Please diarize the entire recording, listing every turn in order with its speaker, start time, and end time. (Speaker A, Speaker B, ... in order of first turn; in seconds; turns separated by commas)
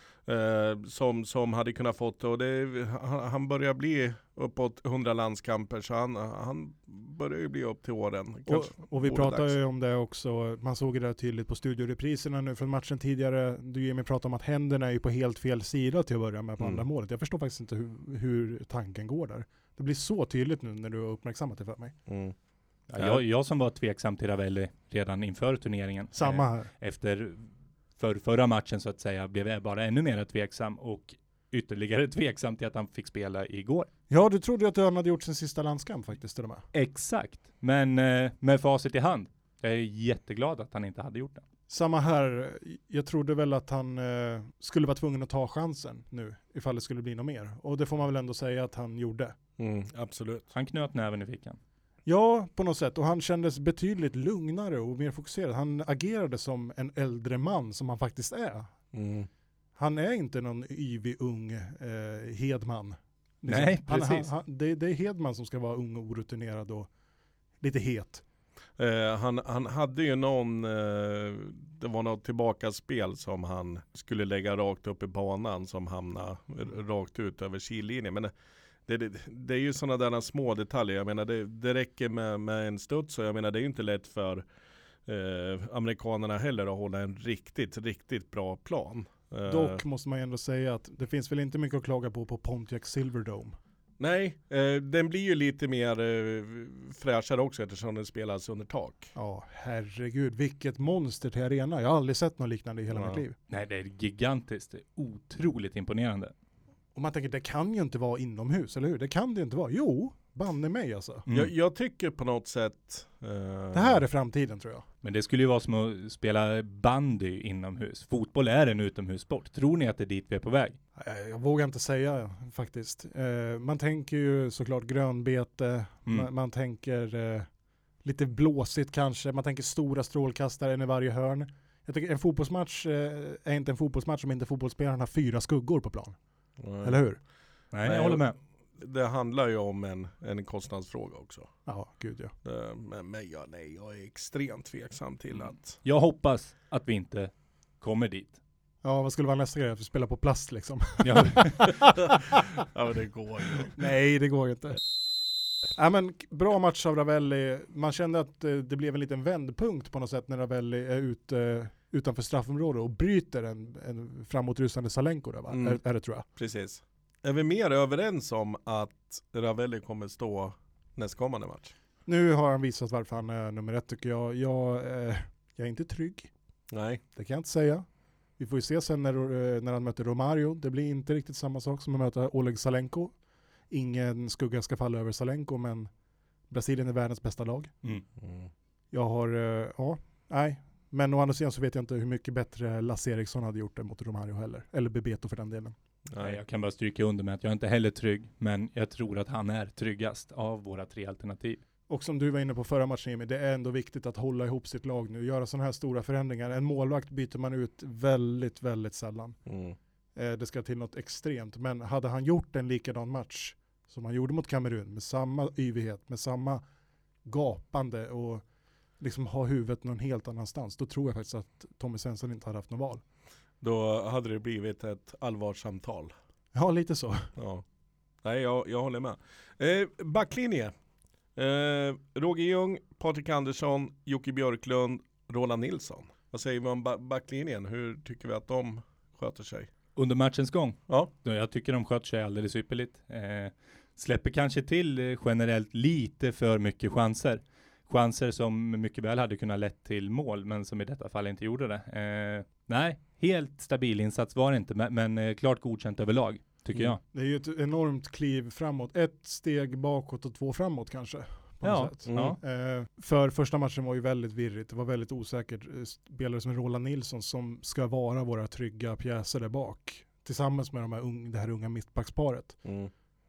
Speaker A: 0.2-9.6, Speaker B: 8.5-21.9, Speaker A: 16.6-16.9, Speaker A: 22.1-22.4, Speaker C: 22.9-33.9, Speaker B: 26.1-26.7, Speaker B: 34.1-36.6, Speaker C: 36.7-41.4, Speaker B: 41.7-49.4, Speaker A: 49.6-50.5, Speaker C: 50.5-51.6, Speaker B: 52.1-58.7, Speaker A: 58.9-59.3, Speaker B: 59.8-66.9, Speaker C: 63.5-64.3, Speaker B: 67.6-68.2, Speaker A: 68.8-78.3, Speaker A: 78.9-84.4, Speaker A: 85.1-89.8, Speaker B: 89.5-93.6, Speaker A: 94.0-99.1, Speaker B: 99.1-103.4, Speaker A: 102.9-103.2, Speaker C: 103.5-106.3, Speaker B: 107.0-111.2, Speaker A: 111.3-114.0, Speaker B: 113.7-114.8, Speaker C: 115.0-120.8, Speaker B: 121.0-127.5, Speaker B: 128.0-136.2, Speaker A: 136.6-137.0, Speaker B: 136.8-137.2, Speaker C: 137.7-138.4, Speaker A: 137.8-138.2, Speaker A: 138.8-141.5, Speaker B: 141.7-142.3, Speaker A: 142.4-145.8, Speaker C: 145.8-148.4, Speaker B: 148.8-152.4, Speaker C: 151.0-151.6, Speaker A: 152.6-153.8, Speaker B: 153.7-154.8, Speaker B: 155.8-166.2, Speaker A: 165.5-165.8, Speaker A: 166.4-171.7, Speaker B: 172.1-176.3, Speaker A: 176.7-177.0, Speaker B: 177.1-177.8, Speaker B: 178.4-183.1, Speaker B: 183.7-185.9, Speaker B: 186.5-187.7, Speaker A: 188.2-188.5, Speaker B: 188.9-195.8, Speaker A: 196.1-196.4, Speaker C: 196.2-201.6, Speaker B: 201.9-209.4, Speaker A: 209.5-209.8, Speaker B: 210.2-216.6, Speaker B: 217.2-218.4, Speaker B: 219.0-223.0, Speaker A: 223.6-226.1, Speaker B: 226.5-227.3, Speaker A: 227.4-227.6, Speaker A: 228.2-230.7, Speaker A: 231.4-239.7, Speaker C: 239.9-257.0, Speaker B: 257.1-272.6, Speaker C: 261.6-262.4, Speaker A: 262.1-262.4, Speaker A: 272.6-272.9